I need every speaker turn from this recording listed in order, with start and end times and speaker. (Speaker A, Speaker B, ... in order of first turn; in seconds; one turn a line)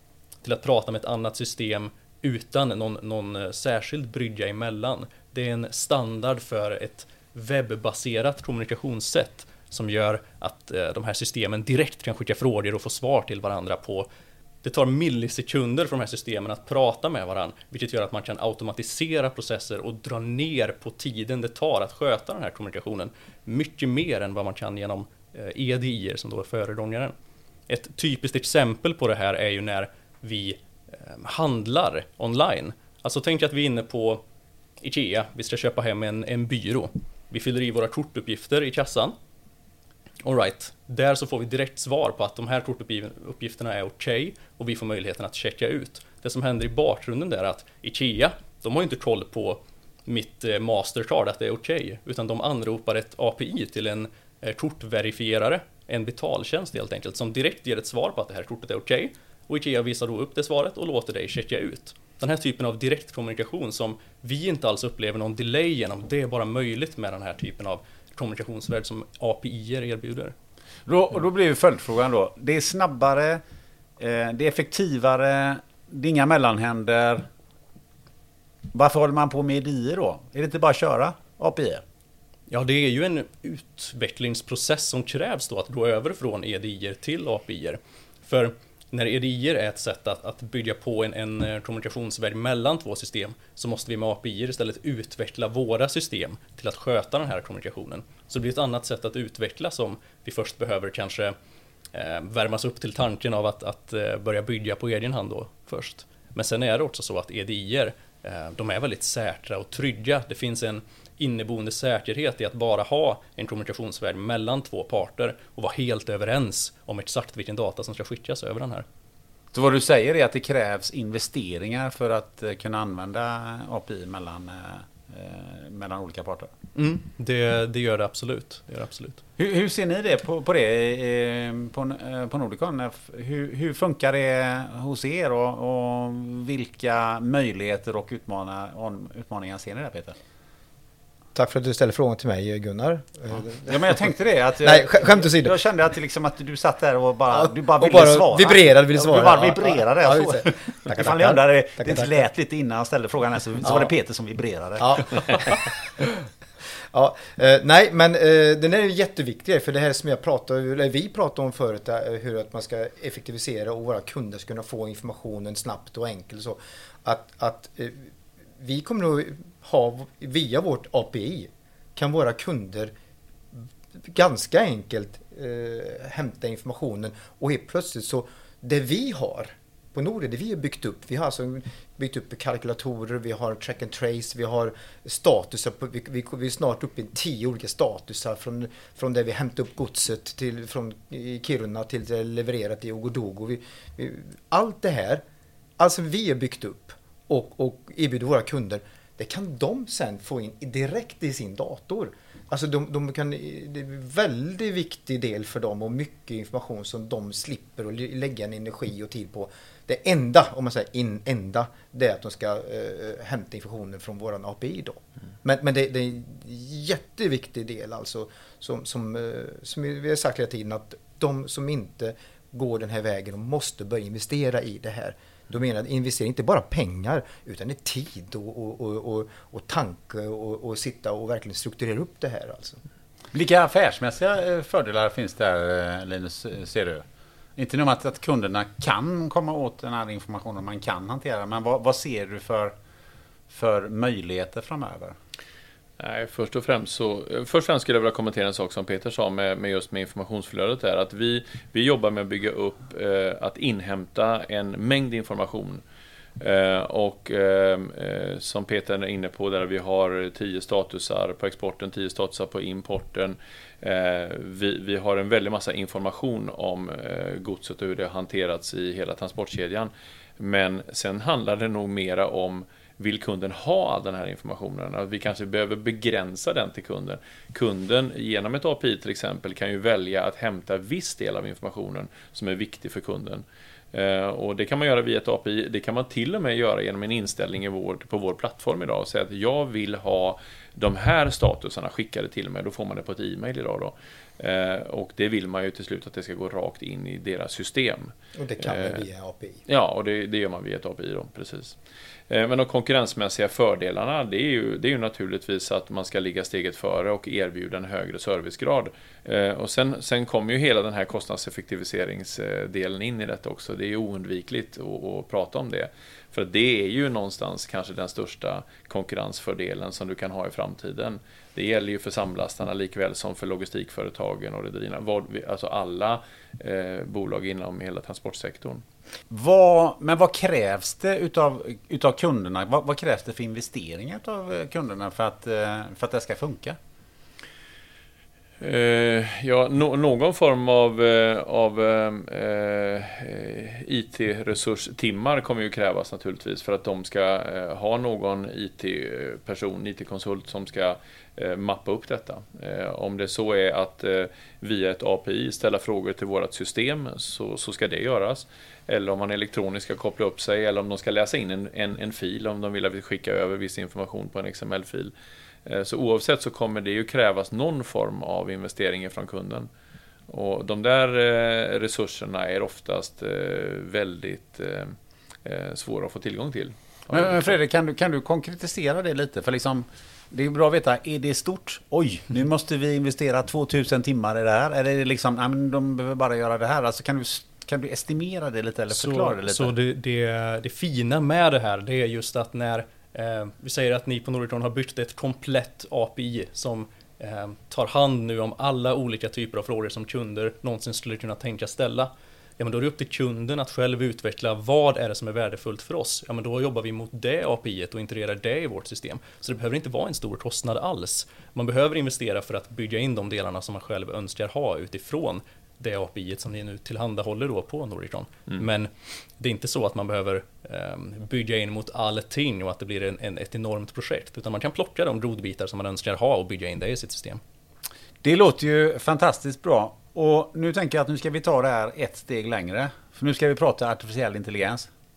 Speaker A: 0.4-14.1
Speaker A: 14.6-27.1
Speaker A: 27.7-34.2
Speaker A: 34.8-39.1
Speaker A: 40.2-70.3
Speaker B: 70.8-73.4
Speaker B: 74.0-77.3
Speaker B: 78.7-81.8
Speaker A: 82.5-101.3
Speaker A: 101.9-118.8
Speaker B: 119.5-126.5
Speaker A: 126.7-129.2
Speaker B: 129.4-140.2
Speaker C: 141.3-144.0
Speaker B: 143.7-155.5
Speaker C: 144.6-145.5
Speaker C: 147.3-152.2
Speaker C: 153.6-153.9
Speaker C: 154.8-156.1
Speaker C: 156.9-172.9
Speaker C: 173.5-195.2
Speaker C: 195.8-232.8
Speaker B: 233.3-237.0
Speaker B: 237.6-242.7
Speaker B: 243.5-245.2
Speaker D: 246.0-255.8
Speaker D: 256.4-299.0
Speaker C: 298.4-299.6
Speaker D: 299.7-301.8
Speaker D: 302.3-328.8
Speaker B: 329.3-336.8
Speaker D: 338.6-365.1
Speaker D: 365.6-369.7
Speaker D: 370.3-377.5
Speaker B: 377.1-389.7
Speaker A: 388.9-427.4
Speaker B: 428.2-434.9